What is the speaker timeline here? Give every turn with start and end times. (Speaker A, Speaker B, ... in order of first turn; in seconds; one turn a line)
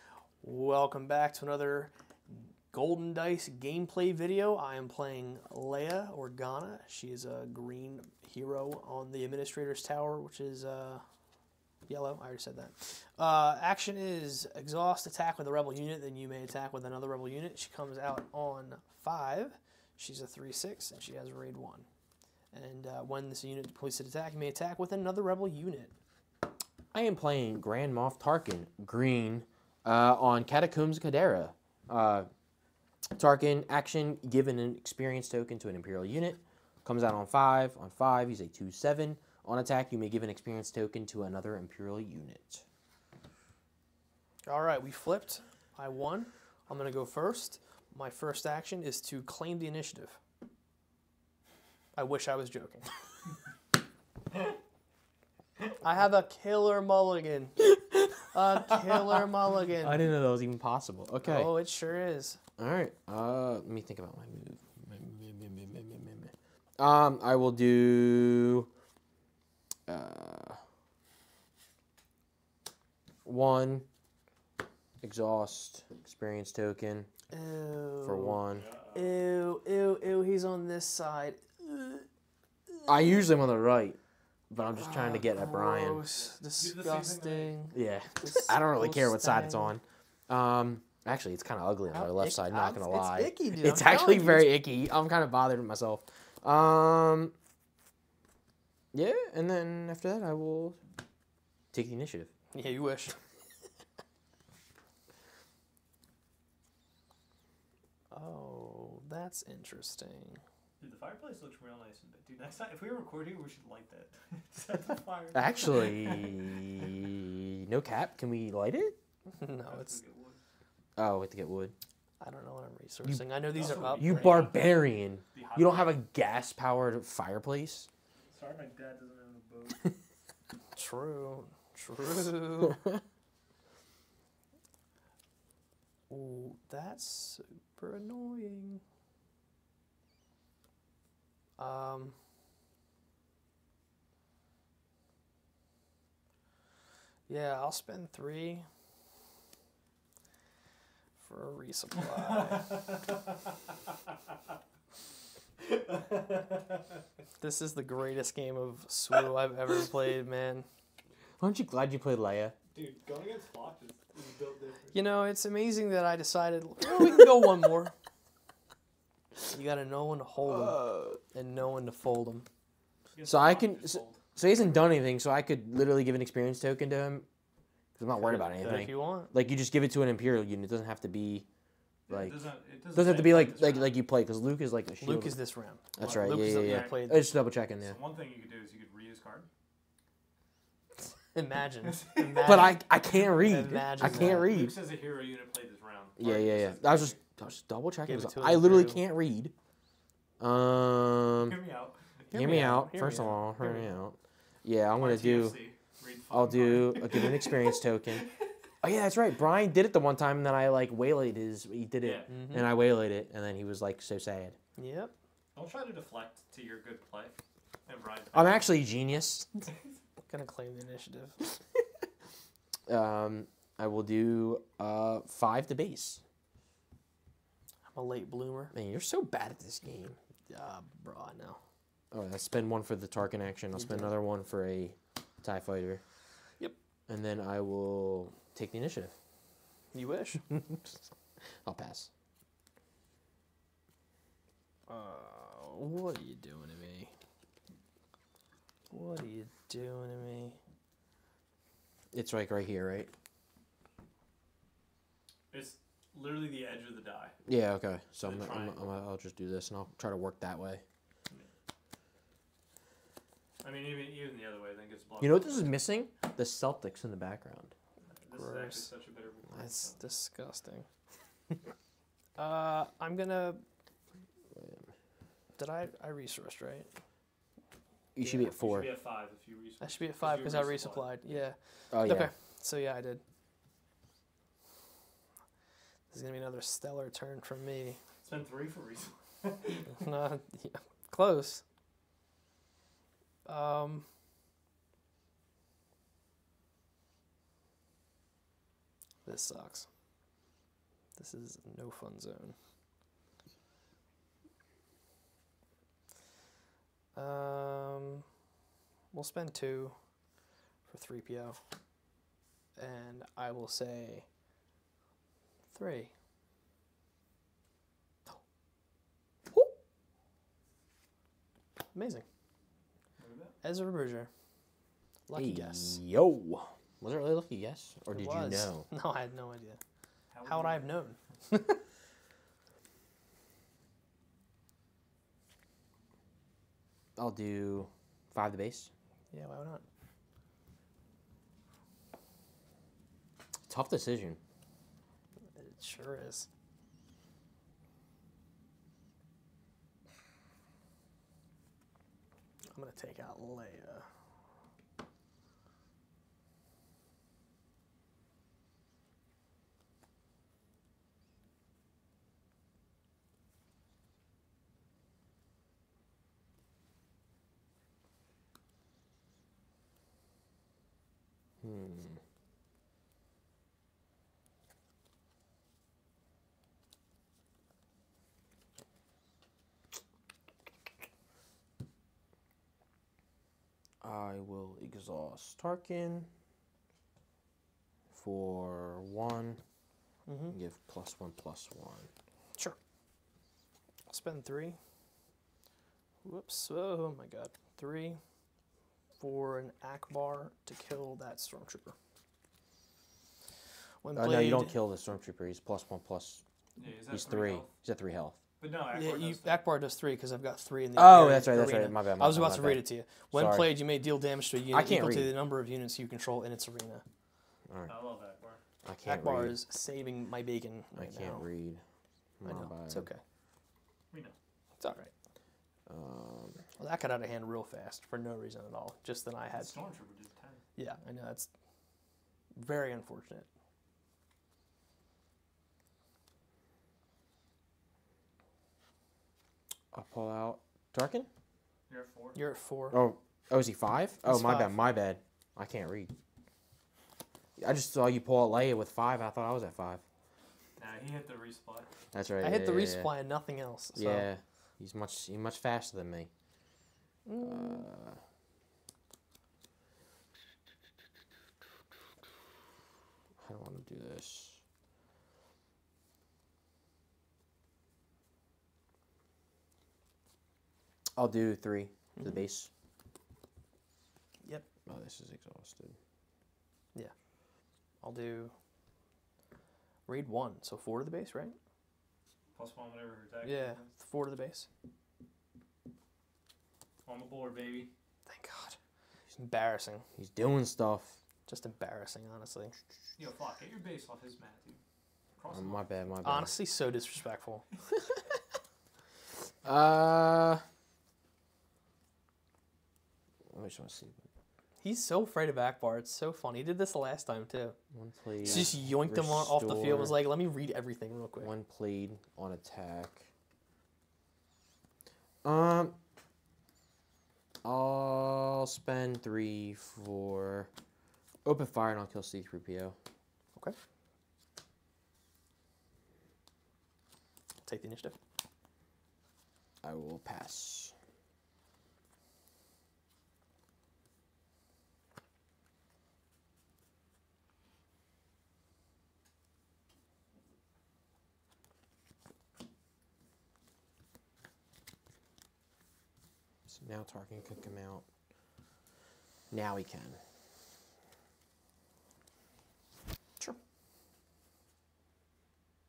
Speaker A: 0.4-11.0
Speaker A: 11.9-21.9
Speaker A: 22.5-25.9
Speaker B: 26.9-32.3
Speaker B: 33.1-42.6
Speaker A: 44.4-50.2
Speaker A: 51.9-52.9
Speaker A: 55.8-57.6
Speaker A: 58.3-60.0
Speaker B: 58.7-59.2
Speaker B: 59.8-61.5
Speaker A: 61.2-62.4
Speaker B: 62.6-68.7
Speaker B: 69.9-70.6
Speaker B: 73.2-73.9
Speaker B: 75.0-77.1
Speaker A: 77.3-78.4
Speaker B: 78.0-78.7
Speaker C: 78.5-79.2
Speaker A: 78.9-82.1
Speaker A: 82.8-83.1
Speaker B: 82.8-84.0
Speaker B: 84.5-86.0
Speaker A: 84.7-89.7
Speaker C: 86.1-87.6
Speaker B: 87.7-97.3
Speaker A: 91.9-94.6
Speaker B: 98.9-100.8
Speaker B: 101.7-102.3
Speaker A: 102.5-103.2
Speaker A: 108.1-110.4
Speaker C: 110.8-116.3
Speaker B: 115.3-119.0
Speaker A: 119.3-120.0
Speaker C: 119.6-120.4
Speaker B: 121.0-121.7
Speaker A: 122.2-124.4
Speaker C: 123.5-124.8
Speaker B: 124.0-127.9
Speaker C: 125.3-126.0
Speaker C: 128.3-129.9
Speaker A: 130.7-132.8
Speaker A: 136.1-138.8
Speaker A: 141.6-142.2
Speaker A: 147.3-148.7
Speaker A: 151.2-152.7
Speaker C: 152.3-153.5
Speaker C: 155.6-157.0
Speaker A: 157.4-160.7
Speaker B: 161.4-162.5
Speaker C: 162.7-165.0
Speaker A: 164.9-167.9
Speaker A: 169.5-172.4
Speaker B: 170.4-171.2
Speaker C: 173.1-174.2
Speaker B: 173.2-177.3
Speaker B: 177.9-181.5
Speaker A: 178.2-179.3
Speaker C: 182.1-183.9
Speaker B: 182.1-185.4
Speaker A: 185.0-187.3
Speaker B: 185.9-188.0
Speaker C: 186.0-187.0
Speaker C: 187.8-189.5
Speaker A: 191.3-192.8
Speaker C: 191.8-192.7
Speaker B: 192.4-194.8
Speaker A: 193.4-194.5
Speaker C: 194.0-197.2
Speaker B: 196.2-199.5
Speaker A: 198.0-199.0
Speaker B: 200.4-201.6
Speaker C: 201.4-202.6
Speaker A: 202.3-203.7
Speaker B: 202.3-205.6
Speaker C: 203.6-203.9
Speaker C: 204.9-208.4
Speaker B: 206.3-208.3
Speaker B: 208.8-214.6
Speaker C: 212.0-212.3
Speaker A: 212.3-212.7
Speaker A: 214.8-215.1
Speaker C: 215.5-218.8
Speaker B: 218.3-219.7
Speaker A: 220.3-221.4
Speaker B: 222.9-226.2
Speaker A: 227.9-228.7
Speaker B: 228.7-230.2
Speaker A: 230.5-231.6
Speaker B: 232.1-236.0
Speaker A: 233.7-234.1
Speaker B: 237.1-239.2
Speaker A: 239.9-240.4
Speaker B: 240.5-240.8
Speaker B: 241.4-242.1
Speaker A: 244.9-247.1
Speaker A: 248.9-250.6
Speaker B: 252.1-253.1
Speaker C: 255.5-257.4
Speaker B: 257.4-260.8
Speaker C: 258.2-258.8
Speaker C: 263.6-265.8
Speaker B: 265.2-267.7
Speaker C: 268.1-270.0
Speaker A: 268.3-268.9
Speaker A: 269.6-270.9
Speaker A: 272.4-273.6
Speaker B: 274.5-274.9
Speaker A: 275.6-276.9
Speaker B: 278.1-278.9
Speaker A: 278.2-278.5
Speaker C: 278.4-281.4
Speaker A: 279.8-283.2
Speaker B: 281.9-282.3
Speaker A: 286.1-288.0
Speaker C: 288.2-290.0
Speaker A: 289.9-291.6
Speaker A: 293.4-294.1
Speaker A: 299.2-299.9
Speaker A: 301.1-302.6
Speaker A: 307.1-308.2
Speaker A: 309.1-309.9
Speaker A: 310.9-311.6
Speaker A: 312.8-314.2
Speaker A: 315.7-316.1
Speaker A: 319.5-319.7
Speaker A: 321.9-322.2
Speaker C: 323.2-323.6
Speaker A: 323.6-324.3
Speaker A: 325.3-326.0
Speaker B: 325.3-328.9
Speaker A: 328.1-329.8
Speaker C: 330.3-330.9
Speaker A: 330.4-331.8
Speaker B: 337.1-338.9
Speaker A: 339.3-339.8
Speaker B: 343.7-344.4
Speaker A: 345.5-346.5
Speaker A: 352.7-354.1
Speaker B: 371.6-372.2
Speaker B: 384.0-386.3
Speaker B: 388.1-389.6
Speaker A: 390.2-390.6
Speaker B: 390.5-392.1
Speaker A: 394.1-394.8
Speaker A: 396.2-398.2
Speaker A: 399.2-401.9
Speaker A: 404.0-404.7
Speaker B: 404.1-406.4
Speaker C: 406.8-407.7
Speaker B: 406.9-408.4
Speaker C: 408.6-409.6
Speaker A: 408.9-417.0
Speaker B: 410.9-413.8
Speaker B: 414.7-415.4
Speaker B: 417.7-417.9
Speaker C: 417.9-418.6
Speaker B: 418.8-419.6
Speaker A: 419.1-421.4
Speaker B: 420.9-421.8
Speaker B: 422.4-423.1
Speaker A: 422.4-423.2
Speaker A: 424.8-425.1
Speaker B: 425.9-426.6
Speaker A: 426.8-429.7
Speaker C: 429.5-430.6
Speaker A: 430.8-431.5
Speaker A: 432.5-433.5
Speaker B: 439.9-441.3
Speaker C: 441.9-442.4
Speaker A: 442.3-443.0
Speaker B: 442.9-446.1
Speaker A: 444.2-444.8
Speaker B: 447.6-450.0
Speaker C: 450.8-451.9
Speaker B: 452.1-453.1
Speaker A: 452.4-454.3
Speaker B: 453.9-456.3
Speaker A: 457.2-457.9
Speaker B: 457.4-458.2
Speaker B: 463.4-464.6
Speaker B: 471.1-472.7
Speaker A: 472.1-472.4
Speaker B: 474.9-476.0
Speaker A: 478.0-478.5
Speaker A: 480.1-481.6
Speaker C: 482.5-483.9
Speaker A: 483.4-484.7
Speaker C: 487.0-487.9
Speaker A: 488.2-488.8
Speaker A: 489.3-490.1
Speaker B: 490.2-491.2
Speaker A: 491.5-492.7
Speaker C: 493.2-494.8
Speaker C: 495.4-496.1
Speaker B: 495.5-496.5
Speaker A: 496.2-497.6
Speaker B: 499.6-500.6
Speaker B: 503.5-504.2
Speaker A: 504.8-507.8
Speaker B: 507.9-510.3
Speaker C: 508.4-508.7
Speaker A: 508.4-511.5
Speaker B: 511.4-513.3
Speaker B: 515.4-516.0
Speaker B: 517.6-520.7
Speaker B: 521.4-523.0
Speaker A: 527.6-528.2
Speaker B: 529.8-530.9
Speaker B: 546.7-548.0
Speaker B: 549.5-550.2